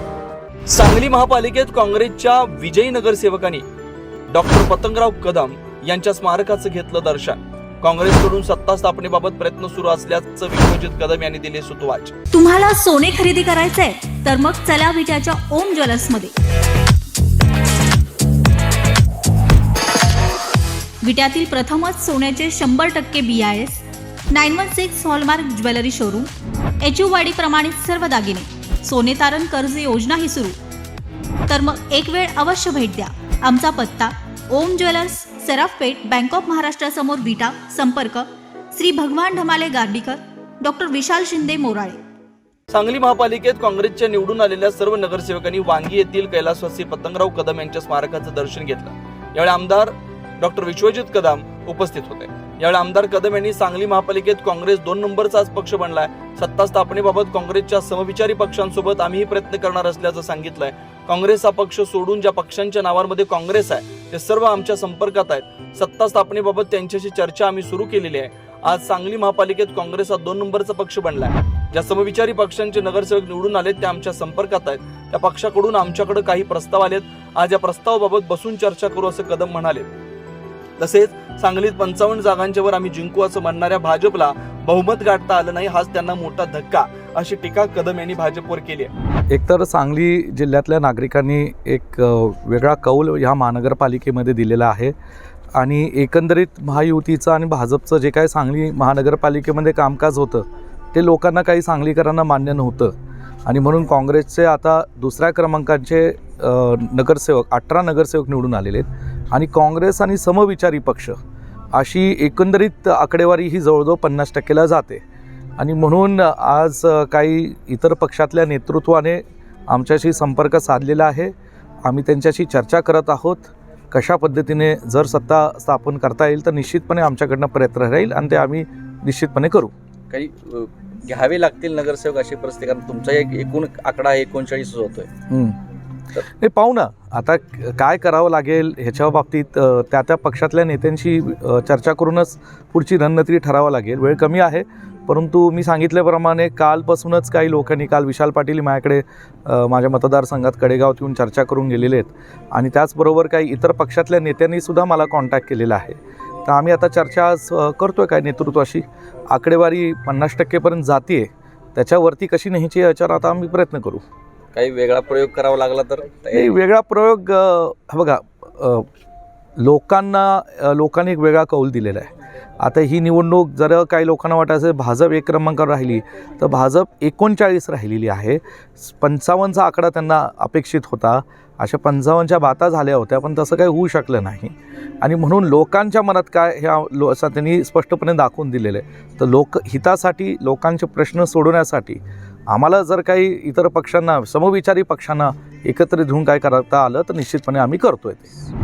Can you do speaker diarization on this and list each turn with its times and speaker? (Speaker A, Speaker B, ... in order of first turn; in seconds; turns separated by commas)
Speaker A: 0.7-3.6, Speaker A: 4.3-12.1, Speaker B: 12.3-16.3, Speaker B: 21.0-26.3, Speaker B: 26.8-30.6, Speaker B: 31.5-42.0, Speaker A: 42.7-79.9, Speaker A: 80.8-88.9, Speaker C: 89.3-94.9, Speaker C: 95.6-102.9, Speaker C: 103.5-111.2, Speaker C: 111.7-115.0, Speaker C: 115.6-121.3, Speaker C: 121.8-129.7, Speaker D: 130.1-135.1, Speaker C: 135.3-135.6, Speaker C: 136.3-164.0, Speaker D: 164.5-166.6, Speaker C: 166.3-168.9, Speaker C: 169.6-198.3